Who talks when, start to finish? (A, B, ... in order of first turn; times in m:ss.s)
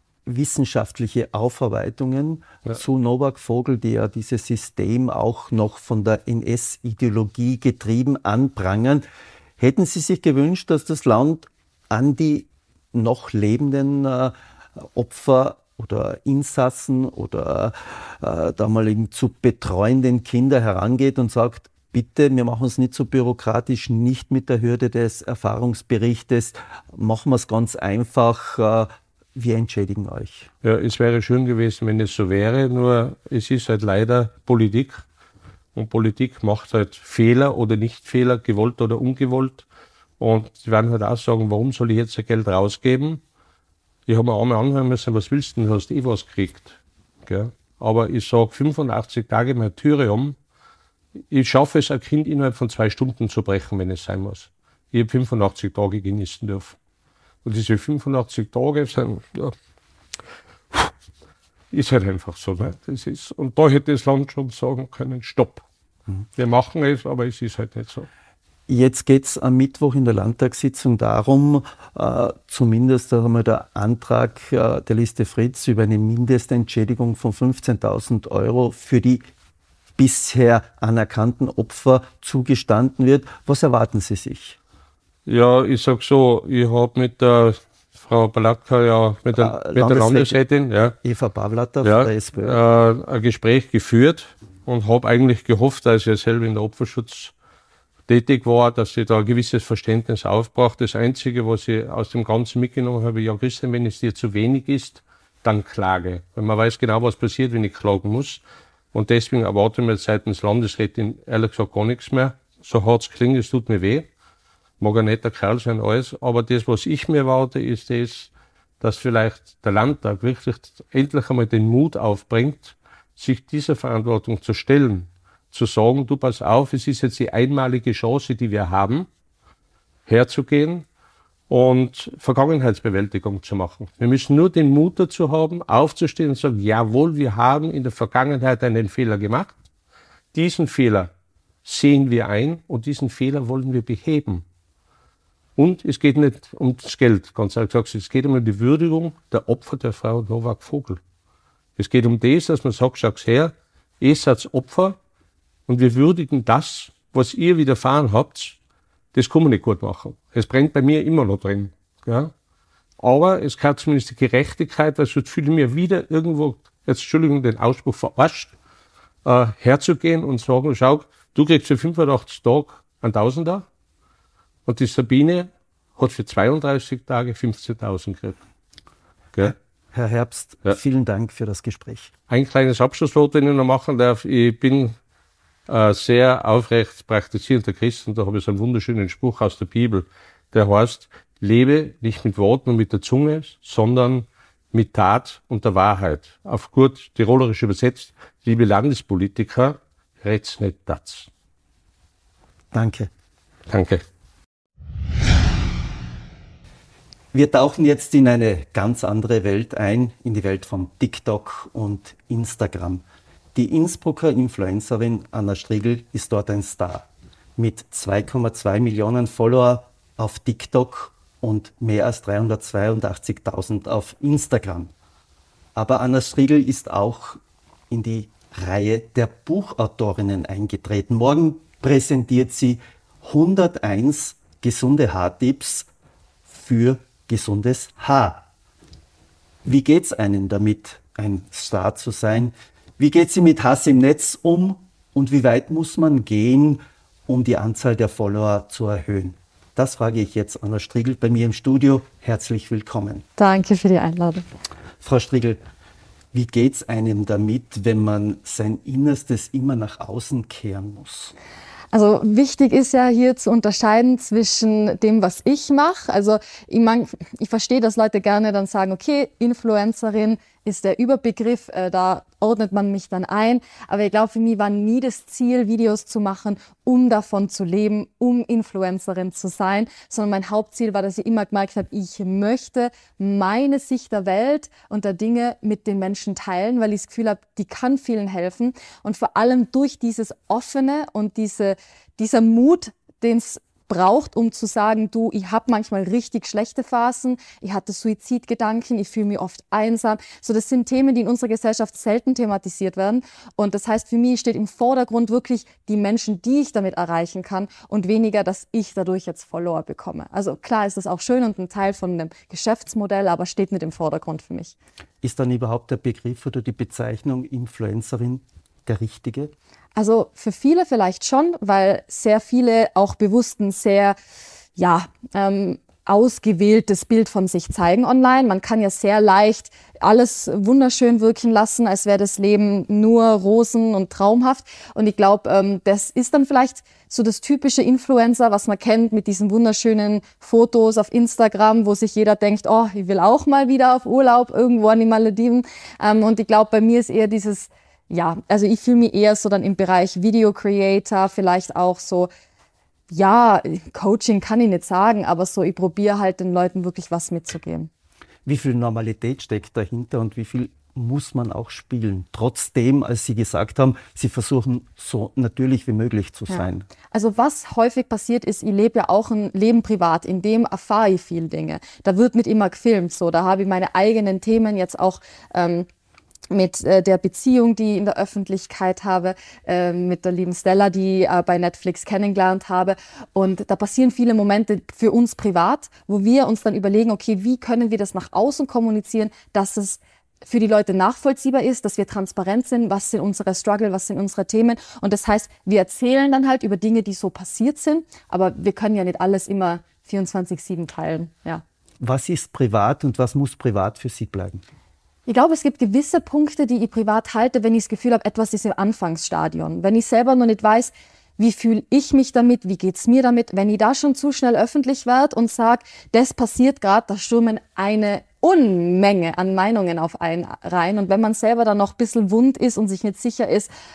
0:00.2-0:09.0 A
0:09.6-0:30.5 A
0:30.6-0:35.0 B
0:35.7-0:39.6 B
0:40.2-0:43.2 B
0:44.1-0:50.4 B
0:51.3-0:56.8 B
0:57.4-0:59.5 B
1:01.7-1:05.6 B
1:06.4-1:08.1 B
1:08.7-1:19.2 A
1:20.0-1:24.6 A
1:25.2-1:30.9 B
1:29.4-1:30.4 A
1:31.0-1:32.6 A
1:31.8-1:37.3 B
1:38.1-1:48.4 B
1:48.9-1:54.0 B
1:54.8-2:09.1 B
2:10.1-2:10.8 B
2:11.5-2:19.5 B
2:20.3-2:21.1 B
2:21.6-2:24.4 B
2:25.6-2:31.0 B
2:31.8-2:35.0 B
2:35.7-2:38.6 B
2:39.1-2:42.3 B
2:43.0-2:48.5 B
2:49.2-2:53.6 B
2:54.6-2:58.4 B
2:59.4-3:02.1 A
3:02.3-3:05.0 B
3:05.7-3:21.3 B
3:22.7-3:23.1 A
3:23.7-3:24.0 B
3:27.3-3:33.0 A
3:33.5-3:44.9 A
3:45.7-3:55.9 A
3:56.5-3:58.4 A
3:59.6-4:13.2 A
4:13.4-4:14.4 C
4:15.0-4:15.6 A
4:16.3-4:21.3 A
4:21.9-5:14.8 C
5:15.2-5:19.5 A
5:20.0-5:24.2 C
5:24.8-5:52.3 C
5:53.1-5:57.9 C
5:58.4-6:06.9 A
6:06.5-6:15.9 C
6:16.5-6:41.6 C
6:42.0-6:44.6 A
6:45.3-7:03.7 C